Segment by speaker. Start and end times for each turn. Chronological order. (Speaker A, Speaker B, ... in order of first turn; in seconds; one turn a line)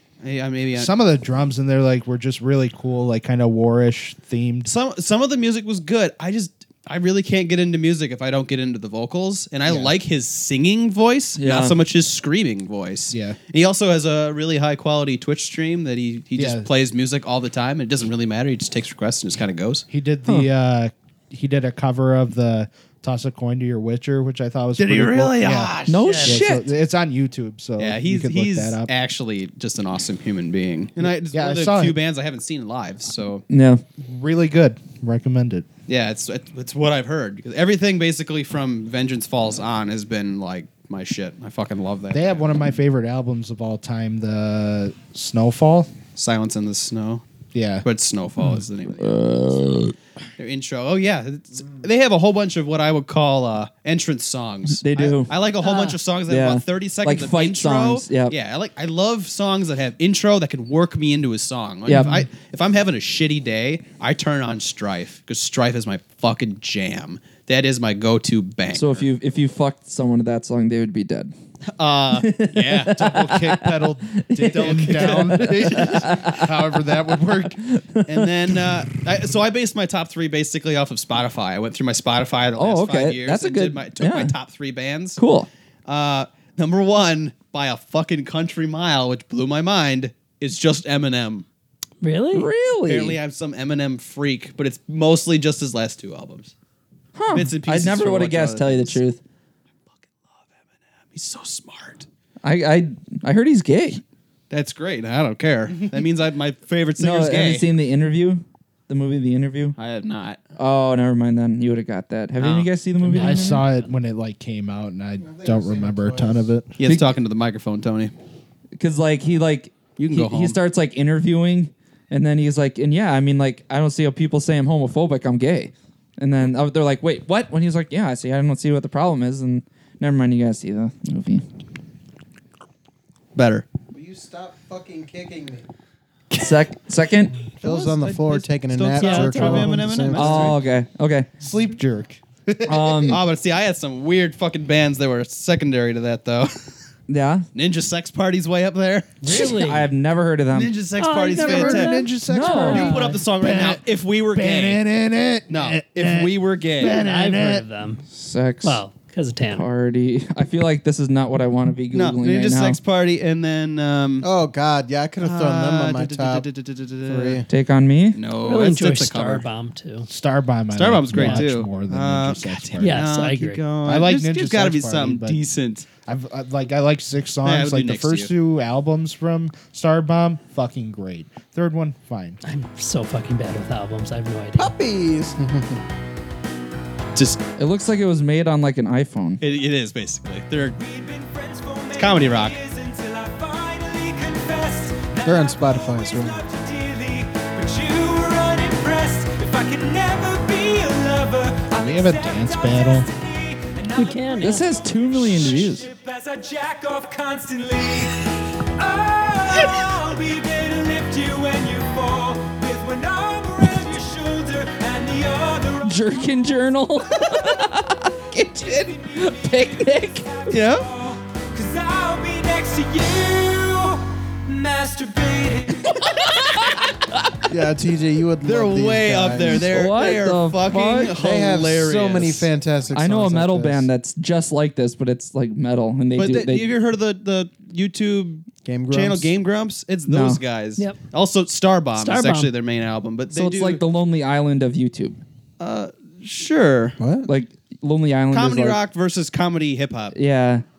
Speaker A: 0.2-0.9
Speaker B: 0.7-4.7
Speaker A: 4.6-19.8
Speaker B: 9.7-9.9
Speaker C: 11.4-11.8
Speaker B: 13.1-13.4
Speaker B: 16.4-16.7
Speaker B: 19.9-28.9
Speaker A: 24.8-26.4
Speaker C: 25.9-26.7
Speaker D: 26.0-26.4
Speaker A: 27.8-33.4
Speaker B: 31.3-32.0
Speaker C: 33.5-33.8
Speaker B: 34.0-35.7
Speaker A: 35.9-42.5
Speaker B: 42.1-45.9
Speaker A: 46.1-47.2
Speaker B: 47.5-47.8
Speaker A: 47.8-49.4
Speaker C: 49.0-49.9
Speaker A: 50.4-69.0
Speaker C: 54.7-55.3
Speaker D: 55.6-56.0
Speaker C: 56.3-58.3
Speaker C: 61.9-62.3
Speaker C: 68.7-71.3
Speaker A: 71.7-73.0
Speaker C: 72.1-76.9
Speaker B: 72.9-77.6
Speaker A: 74.4-76.1
Speaker C: 77.6-78.6
Speaker A: 78.0-85.2
Speaker C: 82.6-84.3
Speaker C: 85.2-85.5
Speaker A: 85.8-91.5
Speaker D: 92.0-92.5
Speaker C: 92.3-93.2
Speaker A: 92.8-96.5
Speaker C: 97.2-99.2
Speaker A: 97.3-99.0
Speaker A: 101.1-102.1
Speaker C: 102.4-104.0
Speaker A: 104.5-107.7
Speaker C: 107.0-109.8
Speaker A: 109.8-110.4
Speaker C: 110.6-113.6
Speaker A: 112.4-112.7
Speaker D: 113.0-113.8
Speaker B: 113.1-116.7
Speaker E: 115.2-116.5
Speaker A: 116.8-118.1
Speaker C: 116.8-117.1
Speaker C: 118.8-131.4
Speaker A: 120.0-120.6
Speaker A: 133.3-133.7
Speaker E: 133.9-135.6
Speaker C: 136.3-137.4
Speaker E: 137.6-140.6
Speaker A: 137.6-140.6
Speaker D: 139.0-139.9
Speaker C: 140.1-141.3
Speaker B: 141.4-143.2
Speaker C: 142.7-143.2
Speaker A: 143.1-146.7
Speaker C: 147.1-147.5
Speaker A: 147.5-149.2
Speaker D: 149.2-149.9
Speaker C: 149.3-150.8
Speaker A: 150.5-152.0
Speaker D: 151.0-153.2
Speaker B: 151.3-157.6
Speaker C: 152.2-152.9
Speaker A: 152.7-154.8
Speaker A: 155.5-157.0
Speaker D: 156.8-158.0
Speaker C: 158.1-158.8
Speaker D: 158.6-159.7
Speaker C: 159.5-162.8
Speaker A: 161.9-164.3
Speaker E: 164.2-166.5
Speaker A: 165.2-167.4
Speaker E: 167.0-167.4
Speaker C: 167.5-168.2
Speaker A: 168.1-169.4
Speaker D: 168.4-170.1
Speaker B: 170.1-173.1
Speaker A: 170.7-175.9
Speaker D: 171.1-171.4
Speaker D: 172.8-173.6
Speaker B: 173.8-175.4
Speaker B: 176.0-182.4
Speaker A: 177.4-178.3
Speaker D: 182.4-184.7
Speaker E: 184.6-185.8
Speaker A: 187.1-187.4
Speaker C: 187.6-189.4
Speaker A: 189.4-190.8
Speaker F: 190.7-208.2
Speaker A: 191.9-192.6
Speaker E: 195.2-196.4
Speaker B: 201.7-203.1
Speaker D: 203.9-204.6
Speaker C: 204.4-205.9
Speaker F: 208.8-216.4
Speaker C: 215.8-220.5
Speaker F: 217.3-217.6
Speaker F: 218.3-226.1
Speaker A: 220.5-220.8
Speaker E: 227.5-229.7
Speaker A: 228.4-232.5
Speaker C: 229.5-231.2
Speaker E: 231.1-233.9
Speaker C: 232.9-236.7
Speaker A: 236.1-243.8
Speaker E: 238.6-239.3
Speaker C: 240.1-240.4
Speaker D: 241.9-242.5
Speaker C: 243.3-245.2
Speaker A: 245.6-247.0
Speaker E: 247.0-247.3
Speaker C: 247.2-248.8
Speaker A: 248.3-250.2
Speaker C: 250.1-250.6